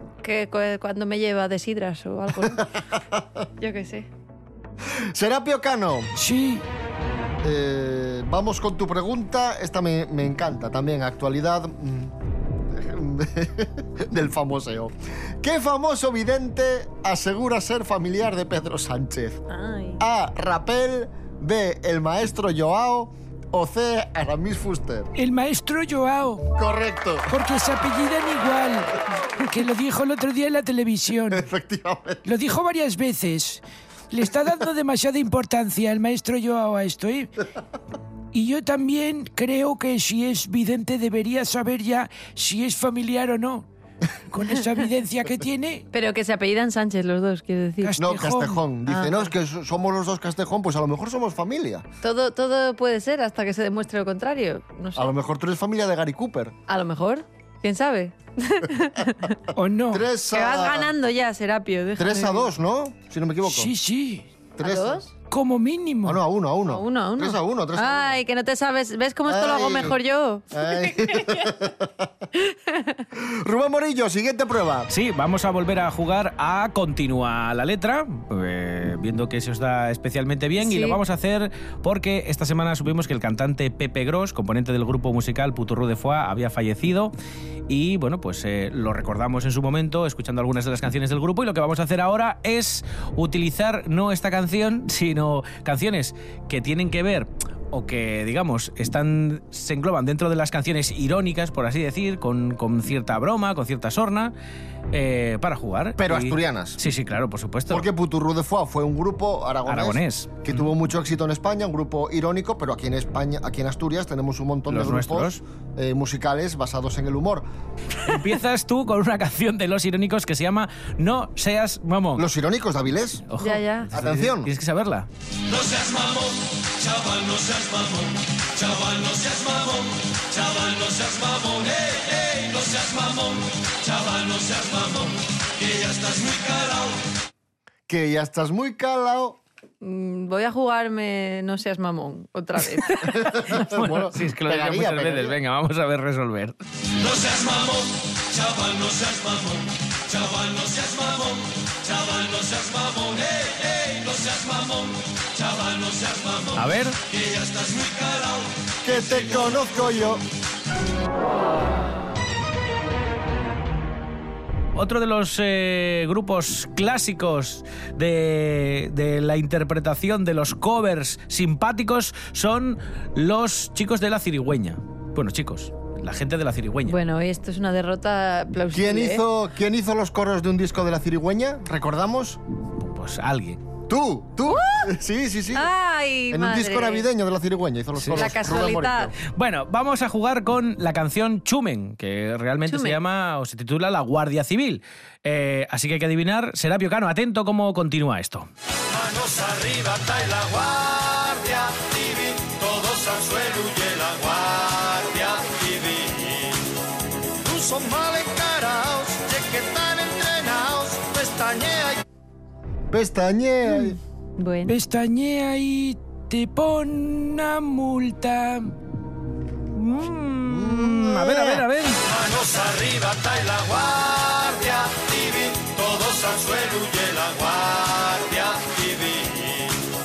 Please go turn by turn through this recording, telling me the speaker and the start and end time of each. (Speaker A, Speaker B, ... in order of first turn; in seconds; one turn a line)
Speaker A: 0.2-2.7
Speaker B: 2.6-3.2
Speaker A: 3.6-4.1
Speaker B: 4.9-6.1
Speaker C: 6.2-6.6
Speaker B: 7.4-12.1
Speaker B: 12.7-19.4
Speaker A: 19.5-20.0
Speaker B: 20.0-25.1
Speaker C: 25.2-26.4
Speaker B: 26.6-27.3
Speaker C: 27.3-31.4
Speaker B: 31.3-32.2
Speaker C: 32.2-37.3
Speaker C: 38.3-43.6
Speaker C: 44.3-45.8
Speaker A: 45.9-48.0
Speaker C: 47.8-48.6
Speaker B: 48.0-51.8
Speaker A: 48.9-49.3
Speaker A: 52.0-55.1
Speaker B: 54.9-56.5
Speaker A: 56.7-59.4
Speaker C: 59.5-60.0
Speaker B: 59.9-60.9
Speaker A: 60.3-62.5
Speaker B: 62.0-63.7
Speaker C: 63.4-64.2
Speaker B: 64.6-65.0
Speaker A: 64.6-65.1
Speaker C: 65.3-66.2
Speaker B: 66.0-68.2
Speaker A: 66.7-71.5
Speaker B: 69.3-70.0
Speaker B: 70.5-72.1
Speaker A: 72.5-73.0
Speaker B: 73.2-74.9
Speaker D: 74.9-87.1
Speaker A: 80.6-81.0
Speaker D: 87.7-104.3
Speaker D: 104.9-107.8
Speaker B: 106.0-106.8
Speaker B: 107.7-117.4
Speaker D: 109.7-110.6
Speaker D: 114.7-115.4
Speaker D: 118.0-122.2
Speaker B: 122.2-123.2
Speaker D: 123.3-125.1
Speaker A: 123.4-123.9
Speaker B: 123.9-124.5
Speaker E: 125.5-137.0
Speaker B: 137.9-139.4
Speaker A: 139.8-143.5
Speaker B: 143.1-145.4
Speaker D: 143.5-146.6
Speaker E: 147.0-159.7
Speaker D: 156.5-157.0
Speaker B: 158.8-160.2
Speaker D: 164.7-176.9
Speaker A: 176.9-179.2
Speaker B: 178.7-182.4
Speaker D: 182.8-183.6
Speaker B: 183.9-185.7
Speaker A: 184.5-184.9
Speaker A: 185.5-187.1
Speaker B: 186.3-189.2
Speaker D: 188.0-188.3
Speaker A: 188.1-189.1
Speaker D: 189.3-198.5
Speaker A: 192.7-193.0
Speaker E: 198.9-206.6
Speaker E: 207.4-212.0
Speaker B: 212.9-214.0
Speaker A: 214.4-214.7
Speaker C: 214.7-218.7
Speaker D: 219.7-222.0
Speaker B: 220.4-221.6
Speaker E: 222.0-229.8